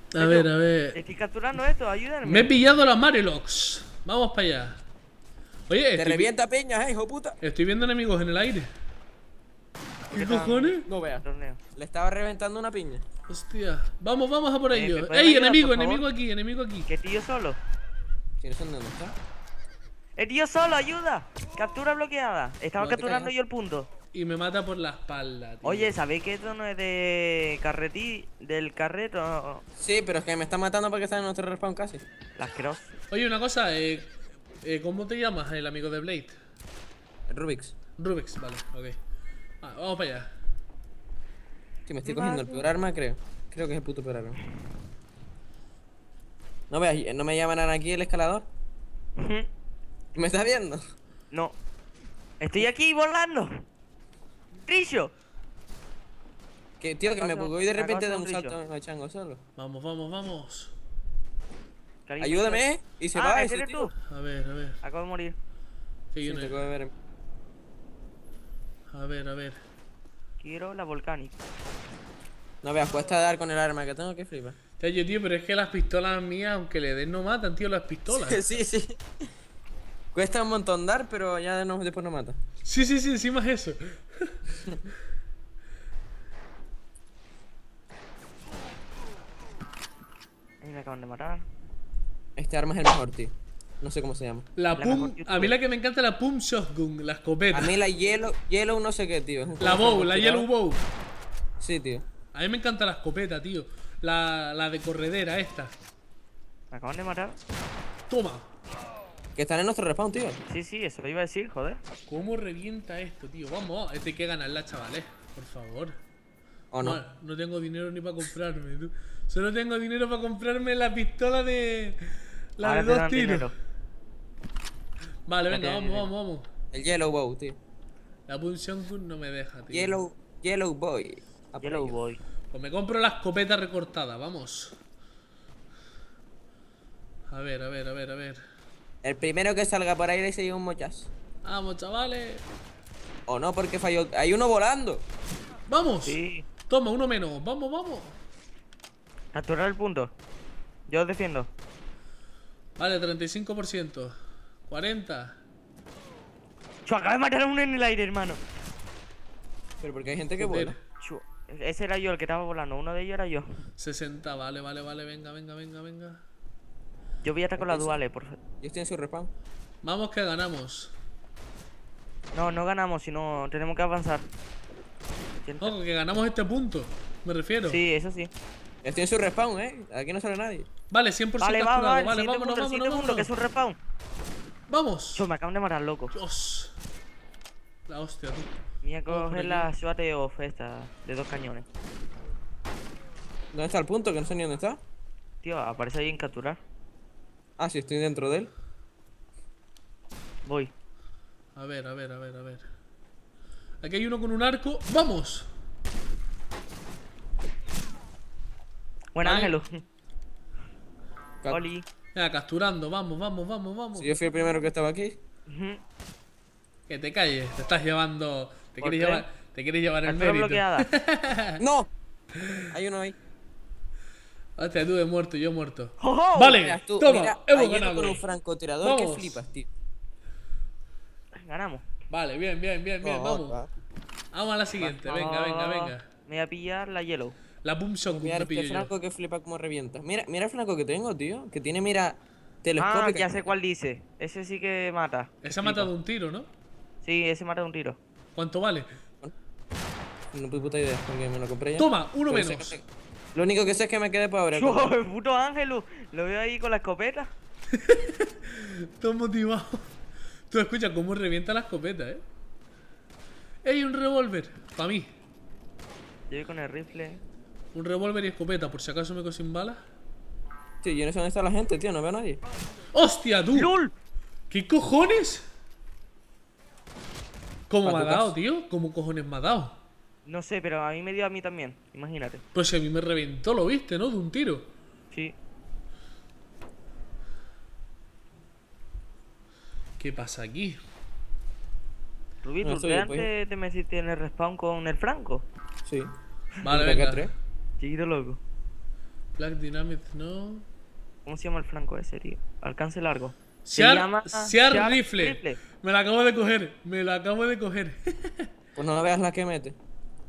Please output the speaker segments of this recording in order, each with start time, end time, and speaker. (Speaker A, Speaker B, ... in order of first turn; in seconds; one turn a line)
Speaker A: 0.1-1.0
Speaker B: 0.2-2.5
Speaker A: 2.2-4.8
Speaker A: 5.7-6.3
Speaker C: 6.0-7.4
Speaker A: 7.4-8.7
Speaker A: 10.1-10.8
Speaker B: 10.1-11.6
Speaker C: 10.8-11.2
Speaker C: 11.8-13.0
Speaker A: 13.3-16.9
Speaker B: 14.7-16.1
Speaker B: 16.9-17.6
Speaker C: 18.4-19.1
Speaker B: 20.2-23.9
Speaker C: 22.8-23.3
Speaker A: 24.1-25.9
Speaker B: 25.6-29.6
Speaker C: 29.8-32.0
Speaker B: 32.4-32.9
Speaker A: 33.1-36.4
Speaker C: 37.3-37.8
Speaker A: 38.0-39.0
Speaker A: 39.6-40.3
Speaker C: 41.9-44.4
Speaker B: 42.1-42.6
Speaker C: 46.7-48.5
Speaker B: 49.2-49.5
Speaker C: 50.1-50.8
Speaker B: 52.4-53.6
Speaker B: 54.6-55.1
Speaker C: 56.8-59.4
Speaker B: 57.1-58.6
Speaker A: 59.6-60.7
Speaker B: 62.1-63.9
Speaker C: 62.2-63.9
Speaker A: 64.1-64.8
Speaker B: 64.8-65.3
Speaker A: 66.1-66.6
Speaker C: 66.2-66.9
Speaker A: 68.9-69.6
Speaker B: 70.4-71.4
Speaker C: 72.6-74.6
Speaker A: 74.8-78.6
Speaker C: 78.1-79.0
Speaker C: 80.1-82.4
Speaker A: 82.7-84.6
Speaker B: 90.6-91.4
Speaker C: 92.4-94.5
Speaker A: 94.6-97.7
Speaker B: 94.8-95.5
Speaker C: 97.5-100.5
Speaker A: 99.6-100.8
Speaker C: 101.6-102.0
Speaker A: 102.3-105.7
Speaker B: 106.7-107.4
Speaker A: 108.1-108.5
Speaker C: 109.4-110.4
Speaker B: 110.5-111.8
Speaker A: 112.1-116.0
Speaker C: 116.7-117.0
Speaker A: 116.8-123.5
Speaker B: 122.6-123.5
Speaker A: 125.3-126.5
Speaker B: 125.5-126.1
Speaker C: 126.7-127.6
Speaker A: 128.3-130.0
Speaker C: 129.7-132.0
Speaker B: 131.6-132.2
Speaker A: 132.5-134.7
Speaker A: 137.3-138.4
Speaker C: 139.0-141.1
Speaker A: 141.4-142.4
Speaker C: 143.3-145.1
Speaker A: 145.7-146.2
Speaker B: 146.1-146.5
Speaker A: 146.7-148.2
Speaker B: 149.3-150.1
Speaker B: 150.9-151.5
Speaker A: 152.8-154.1
Speaker A: 154.7-155.3
Speaker B: 156.8-158.4
Speaker C: 159.8-160.8
Speaker A: 160.4-160.8
Speaker B: 161.0-163.5
Speaker A: 163.8-166.2
Speaker B: 167.2-168.4
Speaker C: 167.6-168.0
Speaker C: 168.6-169.3
Speaker A: 169.8-170.9
Speaker B: 172.3-174.2
Speaker B: 175.4-175.8
Speaker A: 175.6-177.8
Speaker B: 177.7-178.3
Speaker C: 178.8-180.7
Speaker A: 180.9-183.3
Speaker B: 181.4-183.8
Speaker A: 184.7-185.3
Speaker B: 185.2-186.1
Speaker A: 186.1-186.7
Speaker A: 187.9-188.5
Speaker B: 188.8-191.7
Speaker A: 189.1-189.7
Speaker C: 193.5-194.8
Speaker B: 195.4-196.6
Speaker C: 197.6-198.5
Speaker B: 200.4-200.7
Speaker A: 201.6-202.7
Speaker A: 203.8-205.5
Speaker B: 209.2-209.7
Speaker A: 209.2-209.6
Speaker B: 211.5-211.8
Speaker A: 212.2-214.2
Speaker C: 213.9-215.2
Speaker B: 215.5-215.8
Speaker A: 216.9-221.6
Speaker B: 218.8-219.2
Speaker B: 220.1-220.9
Speaker C: 221.6-221.9
Speaker C: 222.7-223.2
Speaker A: 224.6-228.2
Speaker B: 226.0-226.6
Speaker C: 226.6-229.7
Speaker A: 228.8-229.4
Speaker B: 231.3-231.8
Speaker A: 232.1-233.6
Speaker C: 233.0-233.7
Speaker A: 234.3-236.0
Speaker B: 234.8-237.4
Speaker A: 237.6-238.9
Speaker C: 238.1-243.5
Speaker B: 242.8-245.9
Speaker A: 245.4-246.5
Speaker B: 247.0-248.0
Speaker A: 248.3-248.9
Speaker C: 250.3-252.8
Speaker A: 251.8-252.8
Speaker C: 253.3-254.9
Speaker B: 254.5-257.3
Speaker A: 257.7-259.9
Speaker A: 260.5-262.2
Speaker A: 263.6-265.1
Speaker B: 266.3-267.2
Speaker A: 267.7-269.8
Speaker C: 270.8-272.4
Speaker A: 272.9-273.7
Speaker B: 273.5-273.9
Speaker A: 274.5-275.5
Speaker A: 277.7-279.8
Speaker C: 277.8-278.3
Speaker B: 280.3-282.4
Speaker A: 282.6-284.7
Speaker B: 285.1-285.4
Speaker A: 290.0-290.8
Speaker B: 292.4-295.5
Speaker C: 292.6-293.3
Speaker C: 295.9-296.1
Speaker A: 296.6-297.3
Speaker C: 296.6-297.3
Speaker B: 297.8-298.4
Speaker A: 299.4-300.7
Speaker B: 301.3-305.6
Speaker A: 303.6-308.5
Speaker C: 308.8-309.8